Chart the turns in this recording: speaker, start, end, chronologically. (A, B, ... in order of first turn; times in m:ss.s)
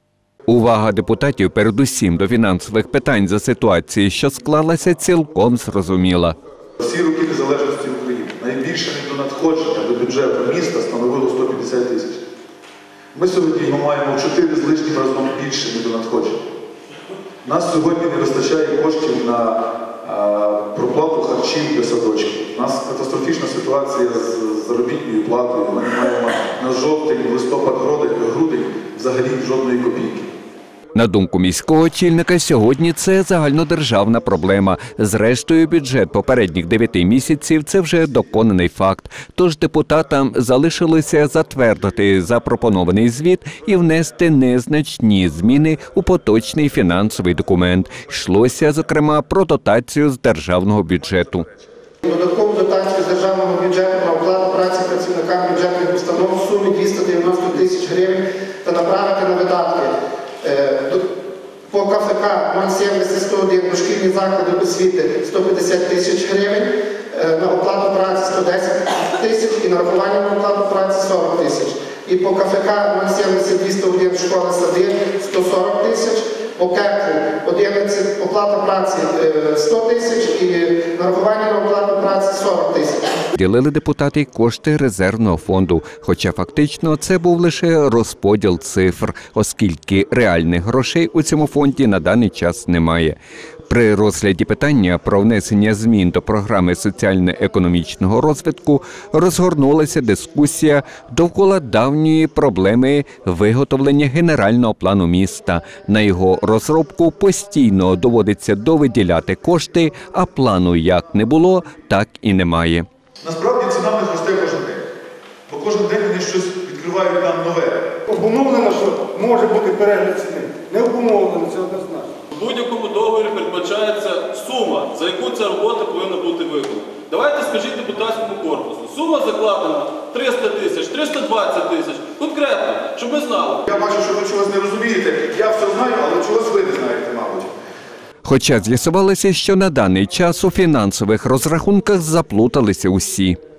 0:00.5-0:06.4 A
0:06.8-0:12.2 B
0:13.1-0:16.5 B
0:17.4-0:30.3 B
0:30.9-0:51.4 A
0:52.0-1:01.1 C
1:01.7-1:23.2 C
1:23.3-1:33.2 A
1:33.7-1:52.9 A
1:53.2-1:54.8 B
1:55.5-1:57.9 B
1:58.1-2:02.1 D
2:02.3-2:13.6 E
2:13.6-2:17.5 B
2:18.2-2:23.4 A